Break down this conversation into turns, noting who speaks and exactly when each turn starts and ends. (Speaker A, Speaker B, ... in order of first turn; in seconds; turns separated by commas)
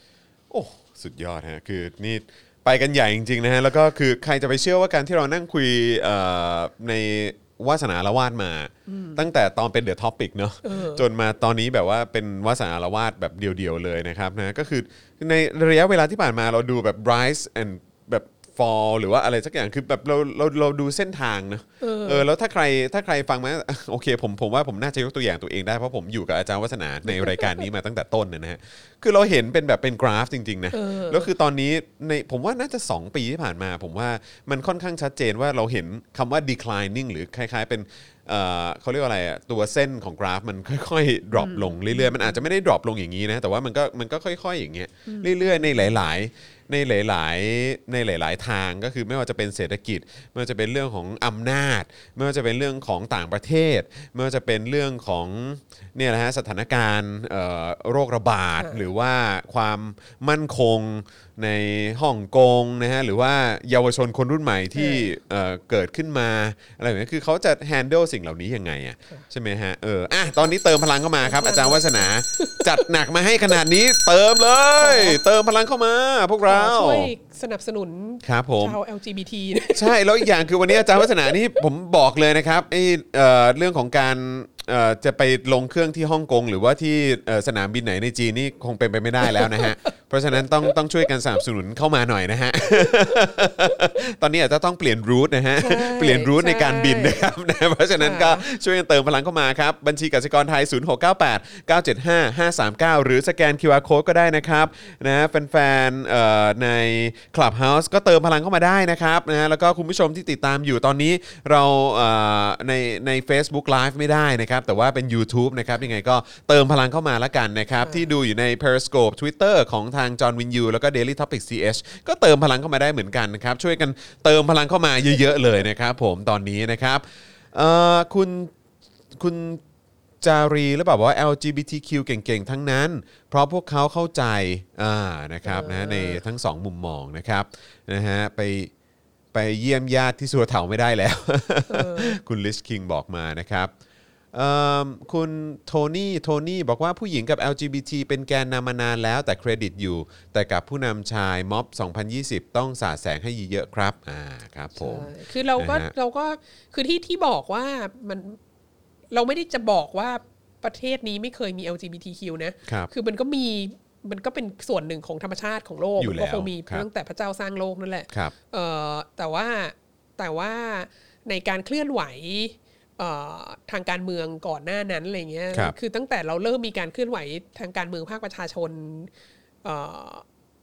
Speaker A: 0.5-77.1, Speaker B: 8.9-9.2, Speaker B: 10.6-11.0, Speaker B: 21.8-22.3, Speaker B: 27.1-27.6, Speaker B: 30.7-31.3, Speaker B: 41.3-42.4, Speaker B: 45.0-45.7, Speaker B: 64.7-65.1, Speaker B: 71.2-72.8, Speaker B: 74.8-75.2, Speaker B: 76.4-81.3, Speaker A: 78.2-78.8, Speaker A: 79.7-128.5, Speaker B: 89.2-89.9, Speaker B: 92.7-92.9, Speaker B: 95.6-97.3, Speaker B: 98.0-98.4, Speaker B: 117.8-118.1, Speaker A: 129.1-129.6, Speaker A: 130.2-138.7, Speaker B: 135.4-136.2, Speaker A: 139.3-143.7, Speaker B: 141.7-142.2, Speaker A: 144.3-155.9, Speaker B: 154.7-158.4, Speaker B: 159.1-179.1, Speaker A: 166.0-166.9, Speaker B: 179.6-180.2